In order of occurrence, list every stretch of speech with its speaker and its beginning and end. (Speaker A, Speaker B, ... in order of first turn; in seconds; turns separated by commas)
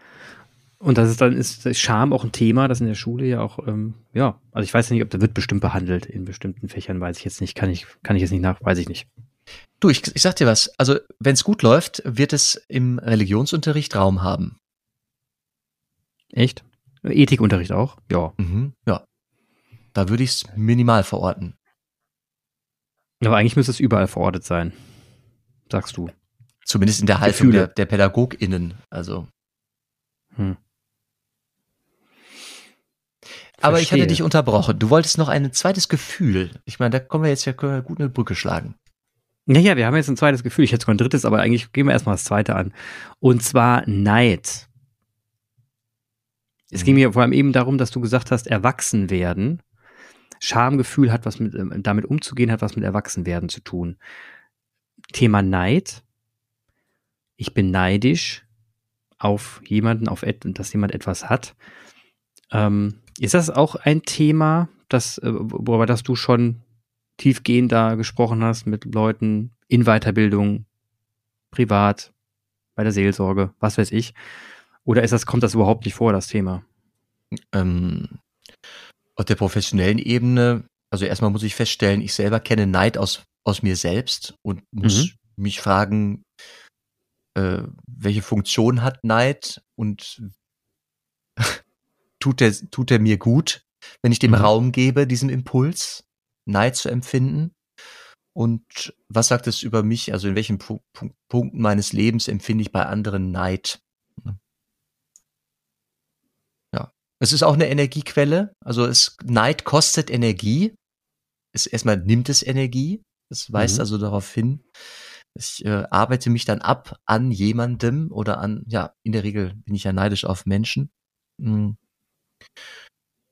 Speaker A: 0.8-9.1, Speaker B: 9.8-14.6, Speaker A: 16.3-18.3, Speaker B: 18.4-19.0, Speaker B: 19.9-21.5, Speaker A: 23.2-24.8, Speaker A: 25.7-26.1, Speaker B: 26.6-29.3, Speaker A: 27.2-27.7, Speaker A: 33.6-34.2, Speaker B: 33.6-38.8, Speaker A: 39.5-44.7, Speaker A: 46.7-49.6, Speaker B: 46.7-47.0, Speaker A: 50.4-54.0, Speaker A: 55.1-56.0, Speaker A: 57.4-58.4, Speaker A: 59.2-61.5, Speaker A: 62.5-66.6, Speaker A: 67.2-70.7, Speaker A: 71.5-72.1, Speaker A: 72.8-74.2, Speaker A: 74.8-76.6, Speaker B: 77.5-78.2, Speaker B: 79.2-86.2, Speaker A: 84.8-85.1, Speaker B: 87.3-90.3, Speaker B: 92.2-97.5, Speaker B: 98.3-104.4, Speaker B: 106.7-110.7, Speaker B: 111.5-114.6, Speaker A: 113.5-113.8, Speaker B: 115.3-121.8